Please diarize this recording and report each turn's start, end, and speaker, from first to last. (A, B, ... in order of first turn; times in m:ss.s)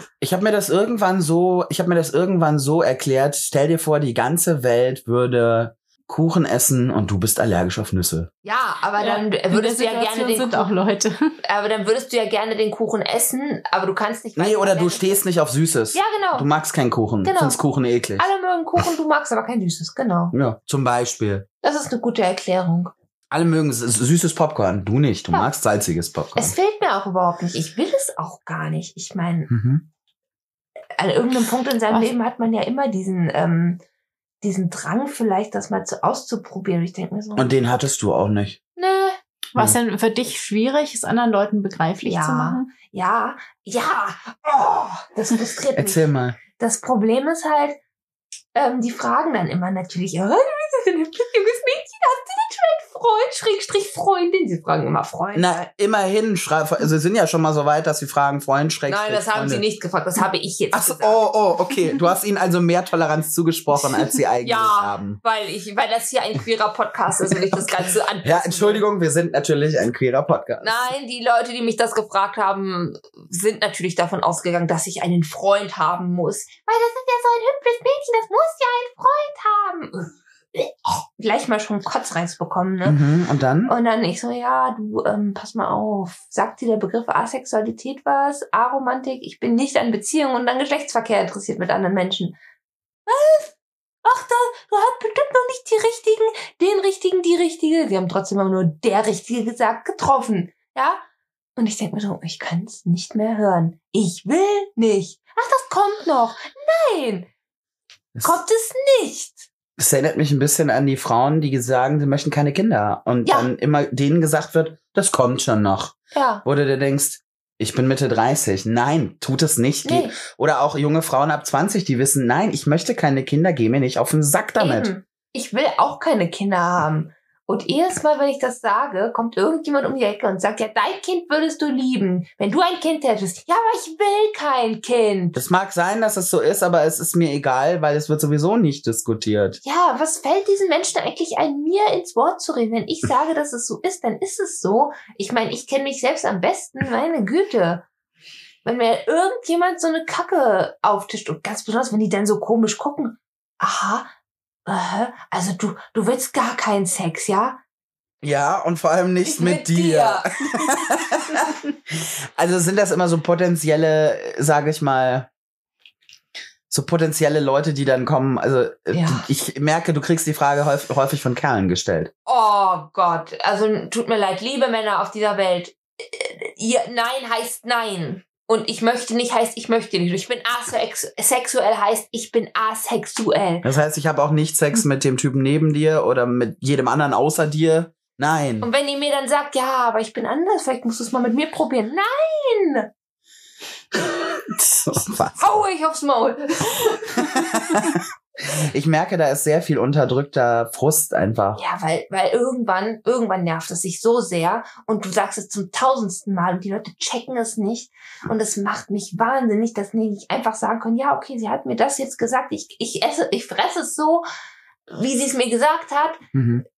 0:00.2-0:08.3 A
0:08.4-0:10.7 B
0:09.0-0:11.3 C
0:11.4-0:15.2 B
0:14.4-0:18.3 A
0:15.9-0:16.5 B
0:17.2-0:17.6 B
0:18.2-0:20.4 B
0:20.3-0:21.5 A
0:21.6-0:22.9 B
0:23.3-0:26.5 A
0:26.4-0:29.5 B
0:29.5-0:29.8 A
0:31.0-0:33.8 B
0:34.4-0:37.5 B
0:37.4-0:38.6 A
0:38.8-0:39.2 B
0:39.6-0:42.7 C
0:42.0-0:47.8 B
0:45.8-0:46.4 A
0:48.6-0:55.6 B
0:55.4-0:59.6 A
0:58.9-1:01.3 B
1:00.7-1:05.2 A
1:04.4-1:08.8 B
1:08.2-1:10.9 A
1:10.6-1:23.0 B
1:22.8-1:23.7 A
1:23.7-1:32.4 B
1:33.1-1:41.0 B
1:41.6-1:47.3 B
1:48.2-1:49.5 B
1:49.8-2:04.9 A
1:53.2-1:53.5 B
1:56.1-1:56.4 B
1:59.8-2:00.2 B
2:04.6-2:15.4 B
2:15.4-2:19.6 A
2:19.6-2:27.8 B
2:28.6-2:34.1 B
2:34.7-2:37.6 B
2:38.2-2:45.3 A
2:39.2-2:40.3 B
2:46.7-2:52.1 A
2:48.9-2:49.3 B
2:52.3-3:03.7 B
3:03.6-3:08.7 A
3:08.6-3:12.9 B
3:14.8-3:15.6 A
3:15.4-3:17.6 B
3:17.2-3:21.6 A
3:21.6-3:34.2 B
3:34.9-3:36.2 B
3:36.3-3:36.6 A